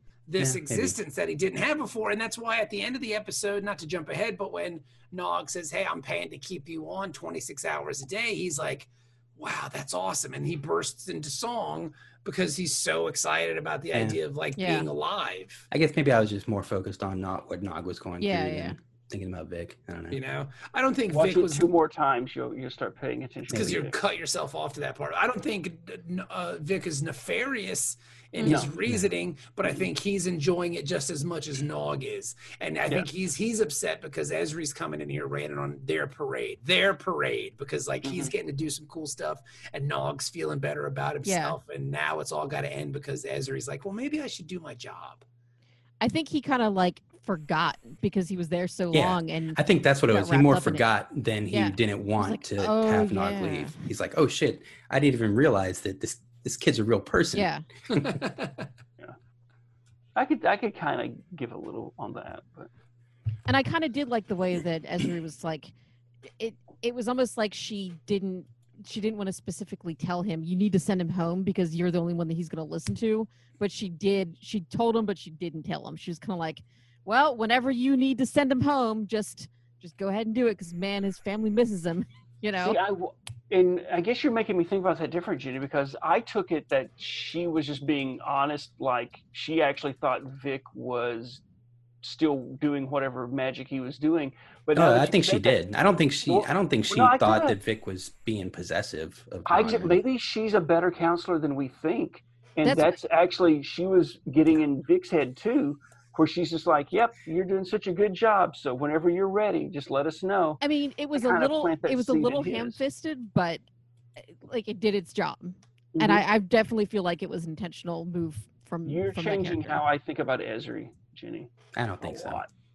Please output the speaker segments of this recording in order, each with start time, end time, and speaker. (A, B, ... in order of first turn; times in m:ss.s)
0:00.3-0:15.7 A
0:00.4-0:01.0 B
0:13.9-0:14.2 B
0:14.6-0:14.9 C
0:15.7-0:20.2 B
0:18.2-0:18.8 C
0:20.1-0:21.7 A
0:21.1-0:24.0 D
0:23.5-0:45.2 A
0:28.4-0:28.7 D
0:38.0-0:38.3 D
0:41.2-0:41.6 C
0:46.0-0:50.8 C
0:48.9-0:58.2 B
0:51.5-0:53.8 C
0:57.3-0:57.6 C
0:57.9-0:58.5 A
1:00.2-1:02.7 D
1:03.5-1:05.7 C
1:06.4-1:22.8 C
1:22.6-1:31.4 D
1:32.0-1:35.6 D
1:34.7-1:40.0 B
1:36.2-1:37.6 D
1:39.5-1:50.6 D
1:42.6-1:43.0 C
1:50.6-1:53.6 C
1:51.1-1:52.8 D
1:54.2-1:59.8 C
1:55.9-1:56.2 D
1:58.8-2:02.5 D
2:01.8-2:02.4 B